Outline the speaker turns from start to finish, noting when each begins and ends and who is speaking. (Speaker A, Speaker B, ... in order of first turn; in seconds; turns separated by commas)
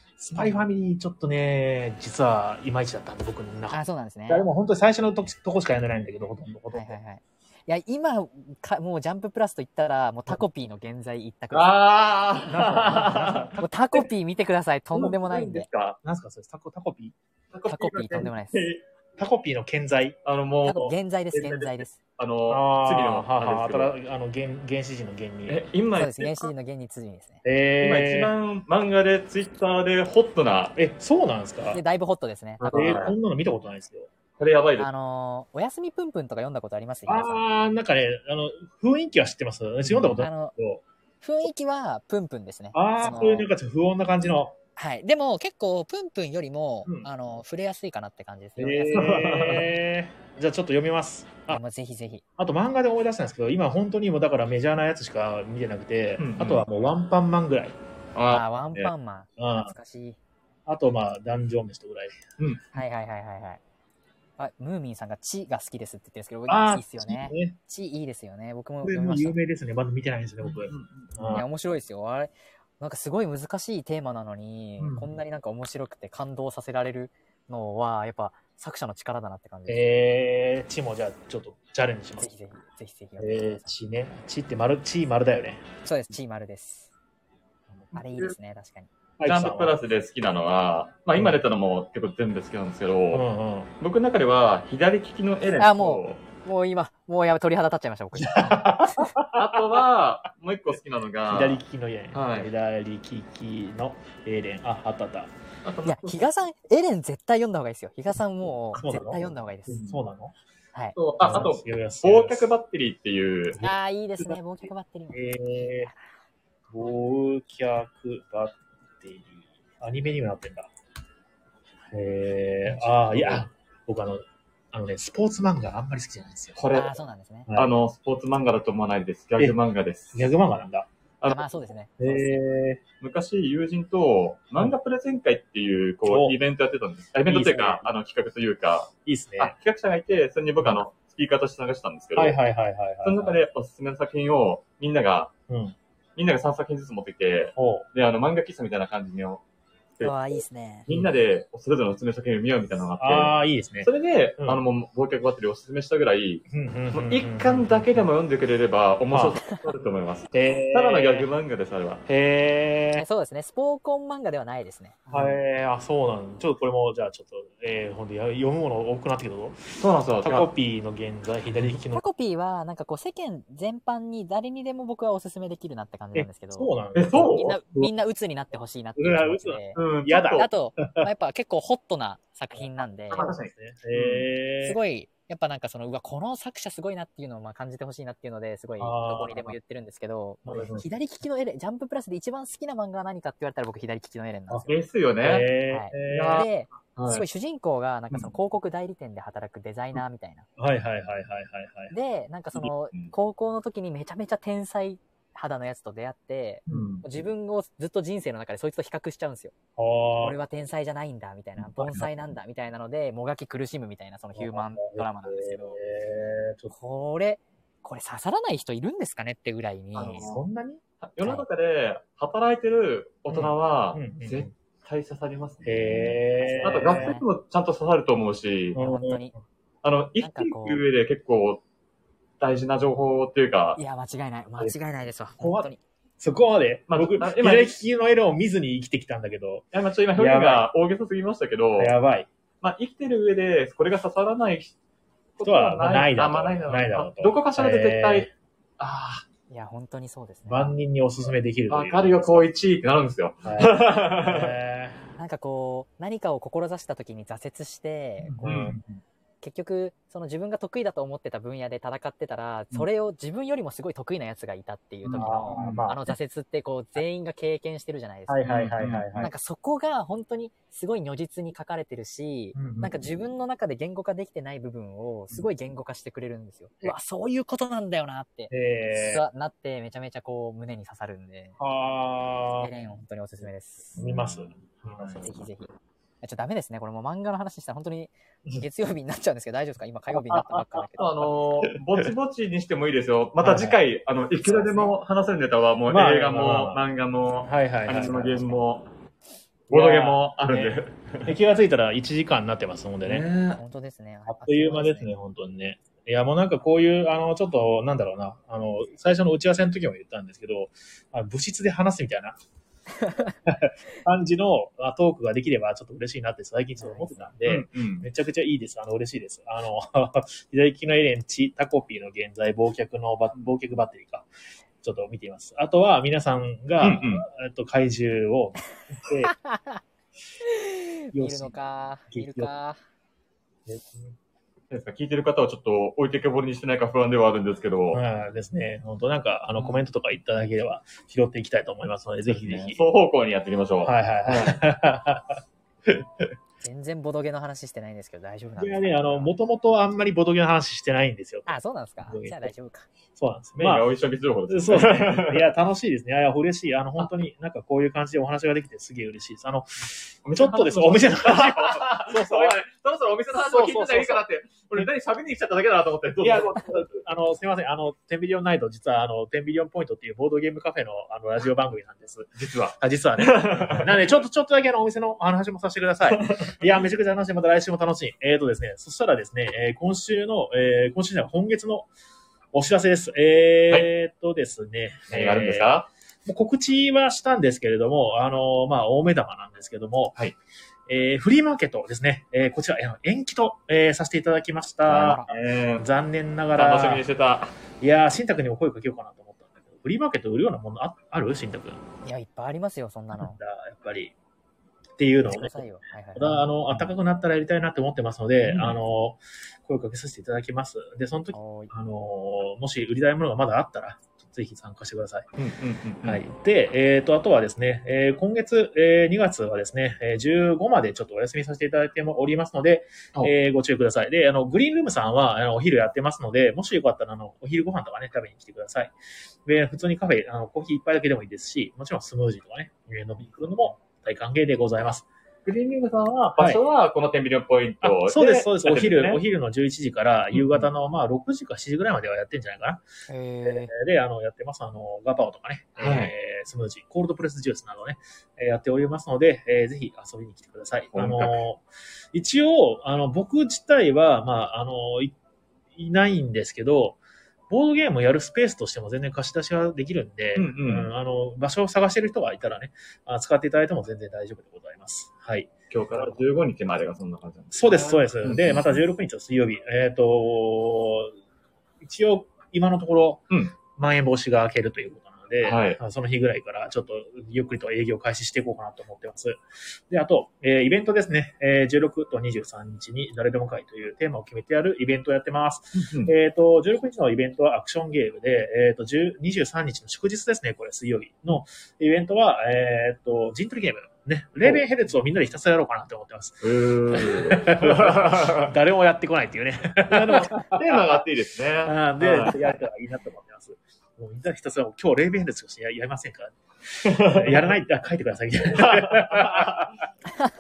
Speaker A: 0.2-3.8, Speaker B: 0.4-0.7, Speaker B: 3.7-4.5, Speaker A: 4.3-7.0, Speaker B: 6.7-11.8, Speaker C: 11.5-13.5, Speaker A: 12.5-14.0, Speaker B: 13.6-15.7, Speaker C: 14.9-16.0, Speaker A: 16.0-17.1, Speaker C: 17.5-18.8, Speaker B: 17.7-18.7, Speaker A: 19.2-20.2, Speaker C: 20.2-24.0, Speaker B: 20.7-22.0, Speaker A: 22.5-25.6, Speaker C: 25.5-26.5, Speaker B: 26.0-27.4, Speaker A: 27.4-28.3, Speaker C: 27.8-30.8, Speaker A: 30.8-31.8, Speaker B: 31.7-33.0, Speaker C: 32.6-33.1, Speaker A: 32.7-34.1, Speaker C: 34.4-34.9, Speaker B: 34.8-37.4, Speaker A: 37.1-40.8, Speaker C: 39.9-40.2, Speaker B: 40.2-40.5, Speaker B: 41.2-43.5, Speaker A: 42.7-44.5, Speaker B: 44.8-49.1, Speaker A: 48.6-51.6, Speaker C: 48.7-49.7, Speaker B: 51.5-52.2, Speaker A: 52.4-57.8, Speaker C: 56.2-56.7, Speaker C: 58.1-58.9, Speaker B: 58.3-60.2, Speaker A: 59.4-59.7, Speaker A: 60.7-62.2, Speaker B: 62.7-63.6, Speaker B: 64.4-69.4, Speaker A: 66.5-67.6, Speaker A: 68.8-71.5, Speaker C: 70.6-71.4, Speaker B: 71.3-80.0, Speaker A: 74.8-75.1, Speaker A: 79.7-82.3, Speaker B: 82.2-83.7, Speaker A: 83.2-85.7, Speaker B: 85.8-86.9, Speaker B: 87.9-88.9, Speaker A: 89.2-89.8, Speaker C: 89.2-93.2, Speaker A: 93.1-93.7, Speaker C: 93.8-96.2, Speaker B: 95.6-99.1, Speaker A: 98.2-99.7, Speaker C: 99.3-101.6, Speaker A: 101.3-105.3, Speaker C: 102.1-102.5, Speaker C: 105.6-106.2, Speaker B: 105.8-109.8, Speaker A: 108.8-109.3, Speaker C: 109.7-110.0, Speaker A: 109.8-110.3, Speaker B: 110.7-111.4, Speaker C: 111.0-113.6, Speaker A: 111.2-112.5, Speaker A: 113.5-114.4, Speaker B: 113.6-116.1, Speaker A: 115.1-115.9, Speaker A: 116.7-120.7, Speaker A: 121.9-126.6, Speaker C: 123.1-123.5, Speaker C: 126.6-127.0, Speaker B: 126.7-127.5, Speaker C: 127.5-130.3, Speaker A: 130.1-130.9, Speaker C: 131.2-131.5, Speaker B: 131.3-132.4, Speaker A: 132.0-132.8, Speaker C: 133.0-142.4, Speaker A: 136.1-136.4, Speaker A: 137.3-137.9, Speaker A: 139.1-139.6, Speaker A: 142.2-143.4, Speaker C: 143.0-145.3, Speaker A: 145.5-145.8, Speaker C: 146.2-149.4, Speaker A: 147.6-147.9, Speaker C: 150.0-162.0, Speaker B: 150.0-150.9, Speaker A: 153.0-154.6, Speaker A: 156.5-158.1, Speaker A: 159.1-159.4, Speaker A: 160.3-161.3, Speaker A: 162.1-163.0, Speaker B: 163.0-165.0, Speaker C: 165.1-165.4, Speaker A: 165.1-172.0, Speaker C: 169.8-170.5, Speaker B: 171.9-176.8, Speaker A: 176.1-177.9, Speaker C: 176.9-177.6, Speaker B: 177.3-183.3, Speaker A: 179.0-181.0, Speaker C: 179.8-180.5, Speaker A: 182.6-184.8, Speaker C: 183.1-184.2, Speaker B: 184.6-194.8, Speaker A: 188.8-189.6, Speaker A: 190.5-190.9, Speaker C: 194.7-195.5, Speaker A: 195.2-196.5, Speaker B: 195.7-200.5, Speaker C: 196.1-197.2, Speaker A: 200.6-201.9, Speaker B: 201.9-209.6, Speaker C: 202.6-203.1, Speaker C: 206.7-207.0, Speaker A: 209.8-210.4, Speaker B: 210.2-215.8, Speaker A: 211.8-212.0, Speaker A: 214.4-216.7, Speaker B: 216.7-220.3, Speaker C: 219.9-220.4, Speaker A: 220.2-220.8, Speaker C: 221.0-228.8, Speaker A: 223.3-224.5, Speaker A: 225.6-227.2, Speaker B: 226.4-227.3, Speaker A: 228.8-229.2, Speaker B: 228.8-229.3, Speaker C: 229.8-231.6, Speaker B: 230.2-230.8, Speaker C: 232.4-233.8, Speaker B: 233.8-235.8, Speaker A: 235.4-240.7, Speaker C: 236.9-237.8, Speaker C: 239.7-241.9, Speaker A: 241.8-242.3, Speaker C: 242.6-244.8, Speaker C: 245.4-249.2, Speaker A: 245.4-248.3, Speaker B: 249.5-250.7, Speaker A: 250.5-252.5, Speaker C: 251.7-254.6, Speaker A: 253.4-255.1, Speaker B: 255.2-258.4, Speaker A: 258.2-259.0, Speaker C: 258.4-258.8, Speaker B: 259.4-268.5, Speaker C: 265.1-265.9, Speaker A: 265.1-266.1, Speaker A: 268.3-269.3, Speaker C: 268.5-269.3, Speaker B: 269.2-281.6, Speaker A: 272.6-272.9, Speaker A: 278.5-279.2, Speaker A: 281.6-282.7, Speaker B: 282.6-284.1, Speaker A: 284.0-285.3, Speaker B: 285.1-285.7, Speaker B: 286.2-291.2, Speaker A: 290.1-290.8, Speaker C: 291.0-298.9, Speaker A: 293.4-293.8, Speaker B: 294.4-294.9, Speaker A: 295.9-296.8, Speaker A: 297.4-298.4, Speaker B: 298.0-298.6, Speaker C: 299.7-301.3, Speaker A: 299.7-303.2, Speaker C: 303.0-303.6, Speaker B: 303.6-305.1, Speaker A: 304.3-312.4, Speaker B: 313.0-313.3, Speaker A: 313.5-324.3, Speaker B: 316.8-317.1, Speaker C: 317.5-318.1, Speaker A: 324.8-329.3, Speaker C: 326.8-327.3, Speaker B: 329.3-329.8, Speaker B: 330.4-332.8, Speaker A: 331.1-331.5, Speaker A: 332.1-332.5, Speaker A: 333.7-334.1, Speaker C: 334.7-338.0, Speaker A: 337.9-342.8, Speaker C: 342.3-344.6, Speaker A: 343.8-345.4, Speaker C: 345.9-346.3, Speaker B: 346.6-349.3, Speaker A: 348.6-351.5, Speaker B: 351.5-352.9, Speaker A: 352.1-352.5, Speaker A: 353.1-353.9, Speaker C: 353.6-355.5, Speaker A: 354.5-362.6, Speaker C: 360.2-366.8, Speaker A: 363.4-364.2, Speaker A: 366.2-381.9, Speaker C: 372.4-374.1, Speaker C: 376.1-376.5, Speaker A: 382.5-385.7, Speaker C: 385.1-385.9, Speaker A: 386.3-390.2, Speaker A: 390.9-397.1, Speaker C: 394.9-395.9, Speaker B: 395.0-395.2, Speaker C: 396.6-397.5, Speaker A: 397.8-401.8, Speaker B: 402.0-403.4, Speaker A: 403.2-404.1, Speaker A: 405.0-405.6, Speaker B: 405.3-406.5, Speaker A: 406.1-415.3, Speaker C: 408.4-408.8, Speaker B: 411.3-411.7, Speaker C: 415.4-416.2, Speaker A: 416.0-428.9, Speaker A: 429.5-435.1, Speaker C: 435.5-439.2, Speaker A: 437.8-442.8, Speaker C: 440.3-440.6, Speaker B: 443.1-443.7, Speaker A: 443.5-455.1, Speaker C: 445.8-446.1, Speaker C: 450.9-451.4, Speaker A: 455.8-457.0, Speaker A: 457.5-466.2, Speaker C: 460.4-460.9, Speaker C: 465.7-468.8, Speaker A: 467.5-471.2, Speaker A: 471.8-473.2, Speaker A: 473.8-500.8, Speaker C: 475.4-475.8, Speaker C: 485.8-486.1, Speaker C: 496.4-498.5, Speaker C: 499.9-502.5, Speaker A: 501.6-509.8, Speaker C: 506.9-507.5, Speaker C: 508.5-509.7